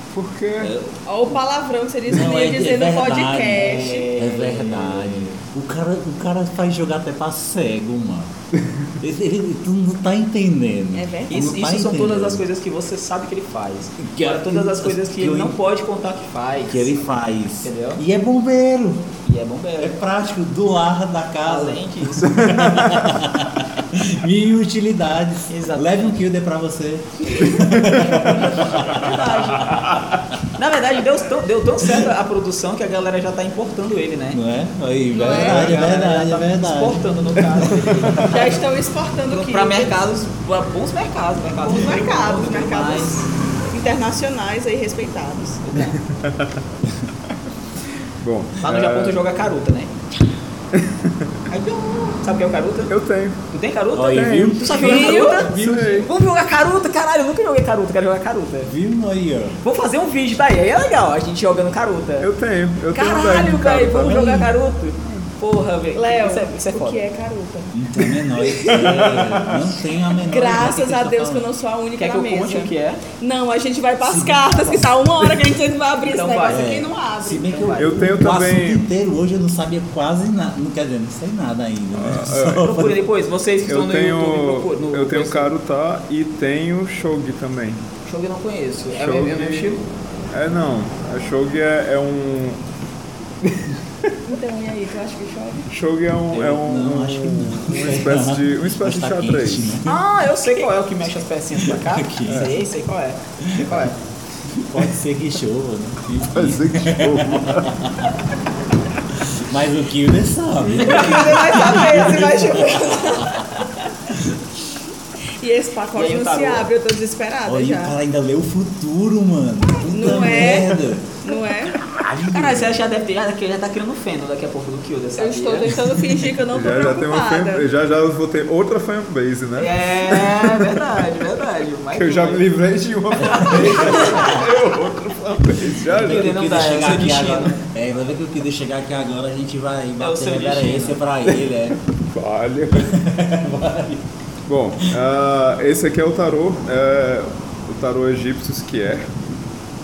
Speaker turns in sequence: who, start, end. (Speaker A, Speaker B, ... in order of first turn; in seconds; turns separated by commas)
Speaker A: 0.1-0.7, Speaker B: 1.1-4.1, Speaker C: 2.1-8.3, Speaker D: 3.5-5.3, Speaker C: 9.0-12.4, Speaker B: 10.9-11.5, Speaker D: 11.3-17.0, Speaker C: 14.0-15.6, Speaker C: 16.7-19.1, Speaker D: 17.6-18.0, Speaker D: 19.2-20.0, Speaker C: 19.8-29.3, Speaker D: 21.4-22.5, Speaker A: 22.4-23.2, Speaker D: 25.5-26.1, Speaker A: 27.6-27.9, Speaker B: 27.9-30.0, Speaker D: 30.5-34.4, Speaker C: 34.3-37.0, Speaker B: 35.1-35.8, Speaker D: 35.3-38.6, Speaker A: 37.9-38.2, Speaker B: 38.2-40.0, Speaker D: 39.3-43.3, Speaker B: 41.6-45.6, Speaker D: 45.7-46.0, Speaker A: 46.1-46.6, Speaker A: 48.2-49.2, Speaker D: 48.6-49.9, Speaker A: 50.7-51.3, Speaker D: 51.5-52.9, Speaker A: 52.9-53.4, Speaker D: 53.5-58.7, Speaker C: 53.9-56.1, Speaker B: 54.7-55.5, Speaker A: 55.5-56.1, Speaker C: 58.7-59.6, Speaker D: 59.6-62.3, Speaker A: 62.2-64.2, Speaker D: 62.9-67.0, Speaker C: 64.1-64.5, Speaker B: 65.9-67.8, Speaker C: 67.7-71.5, Speaker B: 68.4-68.9, Speaker A: 68.7-69.6, Speaker B: 70.2-78.1, Speaker D: 72.0-73.0, Speaker C: 74.0-74.7, Speaker D: 76.0-76.7, Speaker C: 76.5-83.0, Speaker A: 77.8-78.9, Speaker A: 82.0-82.7, Speaker D: 82.6-85.5, Speaker A: 83.7-87.8, Speaker D: 88.1-89.8, Speaker A: 88.9-89.8, Speaker A: 90.3-92.6, Speaker A: 93.4-94.1, Speaker B: 94.3-95.7, Speaker A: 95.7-99.8, Speaker C: 96.3-100.0, Speaker D: 99.8-104.0, Speaker C: 101.7-102.6, Speaker A: 102.3-102.5, Speaker C: 103.4-103.9, Speaker C: 104.7-108.1, Speaker A: 106.3-107.8, Speaker C: 109.2-113.5, Speaker B: 110.7-113.9, Speaker D: 110.9-112.0, Speaker B: 115.4-118.0, Speaker D: 116.0-116.7, Speaker C: 117.5-121.3, Speaker B: 119.8-121.8, Speaker C: 121.8-122.8, Speaker D: 122.3-125.8, Speaker B: 125.2-127.7, Speaker A: 126.5-130.7, Speaker D: 129.6-132.5, Speaker A: 131.9-136.4, Speaker D: 133.2-134.3, Speaker C: 133.3-134.4, Speaker C: 135.9-141.8, Speaker D: 135.9-137.6, Speaker D: 140.0-141.0, Speaker A: 142.1-143.1, Speaker C: 142.9-144.0, Speaker A: 144.5-149.1